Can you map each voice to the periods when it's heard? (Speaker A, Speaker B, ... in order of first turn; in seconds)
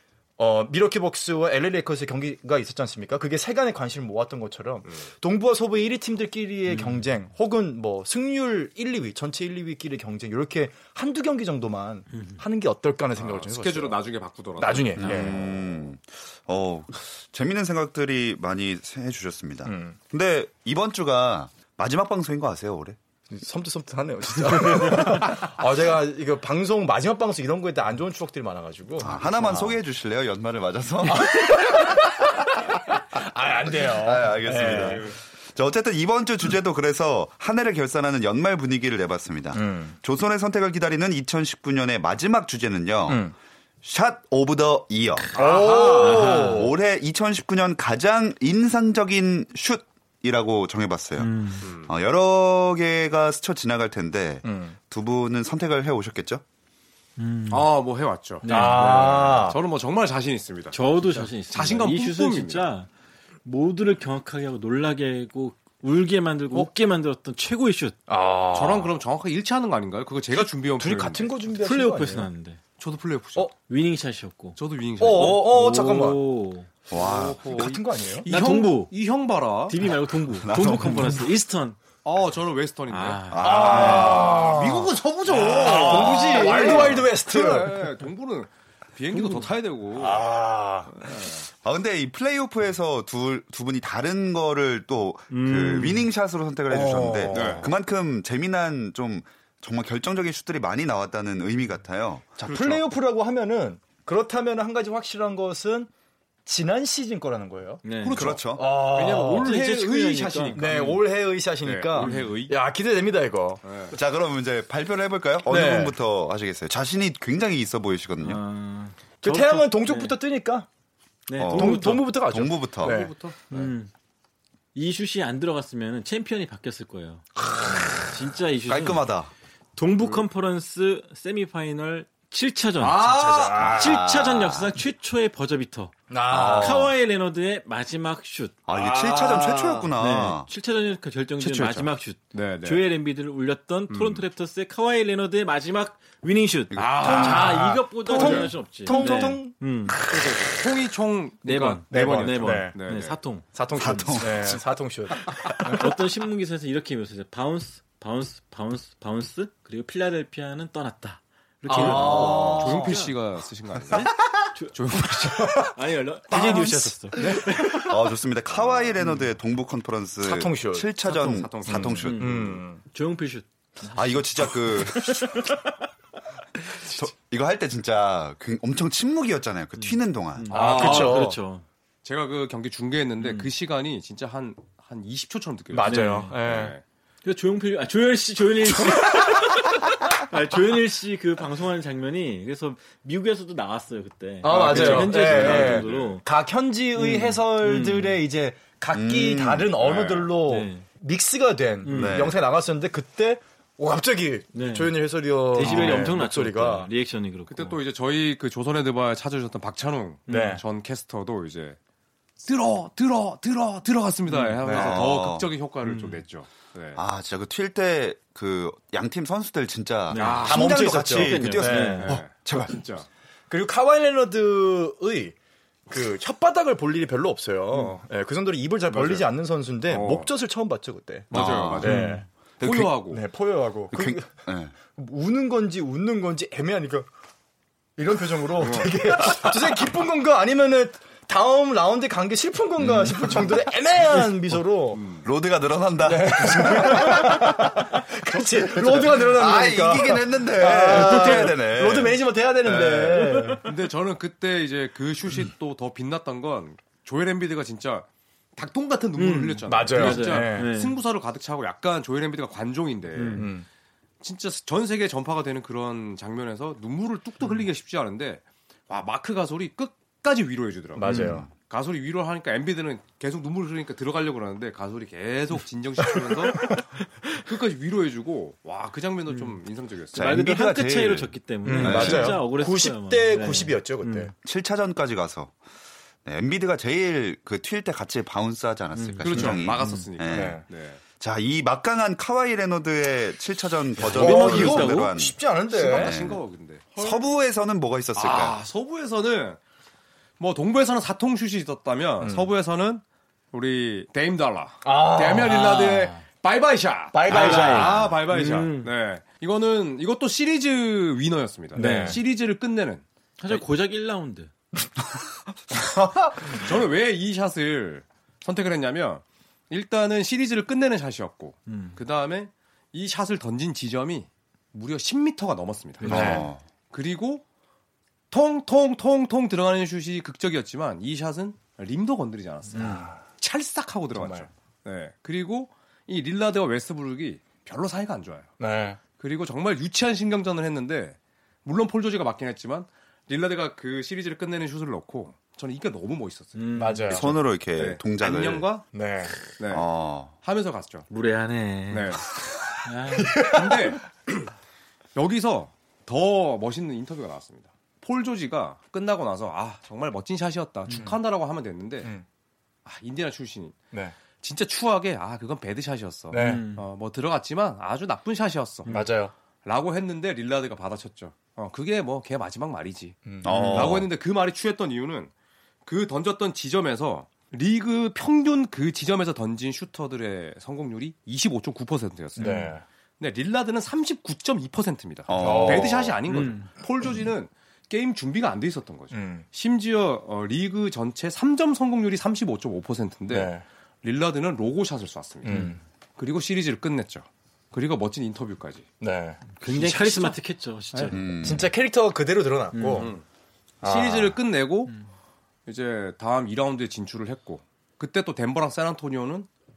Speaker A: 0.4-14.0, 14.6-15.4, 19.6-19.9, 23.3-29.8, 31.0-35.1, 39.5-40.0, 43.1-43.3, 45.3-46.7, 54.4-54.8, 58.5-59.6, 68.1-68.9, 70.3-72.3, 75.0-76.2, 77.5-78.3, 83.4-87.9, 89.9-91.1, 96.7-97.7, 102.4-105.9, 106.5-107.8, 108.5-109.5, 110.5-113.7, 115.5-116.0, 119.2-120.7, 121.5-123.1, 127.4-128.0, 133.0-134.0, 136.1-136.9, 138.8-139.6, 147.0-150.7, 151.9-152.8, 153.5-155.9, 161.6-163.0, 165.1-165.8, 166.3-167.8, 170.2-170.9, 171.6-172.8, 180.5-181.4, 185.7-186.7, 194.4-206.9, 210.3-210.6, 214.6-215.0, 220.4-222.2, 223.5-225.3, 225.9-232.2, 233.1-234.3, 234.9-237.1, 238.0-245.0, 246.0-253.6, 259.6-260.7, 263.4-263.6, 270.9-271.5, 281.6-284.3, 290.3-290.6, 294.0-296.1, 302.2-302.5, 304.8-306.1, 307.1-308.1, 311.7-312.2, 315.8-316.6, 326.0-326.5, 332.7-333.2, 334.1-334.5, 338.6-339.0, 346.8-347.3, 348.9-349.4, 353.1-354.0, 366.3-366.7, 368.9-369.3, 373.2-374.0, 382.4-382.8, 385.4-386.2, 389.1-389.4, 393.3-393.6, 395.4-395.8, 399.0-400.4, 400.9-403.1, 403.8-404.4
Speaker B: 6.7-7.0, 45.9-46.7, 51.2-51.7, 57.2-57.7, 58.4-59.2, 60.7-62.9, 63.4-68.0, 71.6-72.6, 73.7-76.7, 78.2-78.9, 79.7-81.8, 82.9-84.0, 85.6-87.0, 89.1-89.4, 95.3-96.1, 107.8-108.2, 109.4-111.0, 112.0-112.3, 118.2-120.1, 121.3-122.0, 123.5-123.9, 124.7-129.0, 129.8-138.5, 140.0-150.0, 151.4-153.5, 155.3-163.2, 163.9-168.0, 172.0-175.7, 179.8-181.6, 183.2-183.5, 185.8-186.3, 187.2-196.2, 196.9-198.2, 200.5-200.8, 201.8-202.3, 204.5-204.9, 205.5-207.8, 210.3-210.6, 214.3-214.6, 215.8-216.2, 220.1-222.1, 231.8-232.2, 250.9-251.5, 253.2-253.6, 259.1-261.0, 263.1-263.5, 271.0-271.4, 279.3-279.6, 280.1-284.3, 288.9-290.1, 294.0-295.1, 307.3-308.9, 311.7-312.2, 313.4-314.5, 321.7-322.0, 346.5-347.3, 351.1-352.2, 352.8-353.4, 366.3-366.8, 368.9-369.1, 382.4-382.7, 386.3-386.7, 395.5-395.7, 399.6-401.2, 402.7-403.1
Speaker C: 13.2-15.4, 34.5-35.1, 45.4-45.9, 51.6-51.9, 57.5-62.7, 68.5-71.3, 72.8-73.5, 74.5-75.5, 76.9-79.8, 82.0-90.3, 90.9-91.4, 97.3-97.7, 102.4-102.9, 108.0-111.0, 111.6-112.6, 113.6-114.0, 122.8-123.7, 132.8-133.7, 138.7-139.9, 141.4-142.8, 143.9-144.2, 146.7-149.4, 150.0-153.2, 161.7-164.1, 164.7-165.7, 171.0-172.1, 180.5-181.3, 182.0-186.8, 194.4-196.1, 199.8-200.3, 205.6-206.0, 207.5-211.8, 212.4-217.0, 220.1-220.8, 222.0-223.1, 228.9-229.3, 229.9-230.3, 231.3-232.0, 232.6-233.2, 238.6-238.9, 244.9-245.2, 253.6-263.5, 264.2-276.8, 277.3-280.3, 281.7-282.3, 289.2-291.0, 294.1-294.9, 295.7-297.1, 298.1-299.6, 300.4-313.6, 316.4-327.4, 328.3-338.5, 339.2-346.6, 347.1-348.9, 349.5-349.9, 350.4-351.1, 351.9-352.2, 353.3-354.1, 355.1-362.1, 362.8-363.8, 364.4-369.0, 369.6-375.3, 375.9-398.9, 402.9-403.2, 403.8-405.0, 405.6-409.5
Speaker D: 15.0-22.9, 29.0-32.0, 33.6-56.4, 76.9-77.8, 80.3-81.3, 83.3-84.5, 85.7-86.2, 91.6-102.5, 108.1-108.7, 113.9-118.4, 121.4-123.0, 128.7-129.3, 133.6-134.7, 136.3-136.9, 138.7-140.5, 146.7-147.0, 153.7-154.6, 167.6-172.6, 173.9-175.4, 176.8-180.5, 198.9-199.9, 201.9-202.4, 214.7-215.5, 216.9-222.8, 231.3-232.0, 232.6-232.9, 233.9-234.7, 245.2-247.7, 248.8-253.2, 280.1-282.4, 284.4-285.5, 286.2-290.6, 291.2-295.4, 295.9-296.4, 296.9-298.6, 326.0-326.6, 347.1-348.7, 349.7-350.3, 373.4-374.1, 385.3-386.1, 401.1-401.7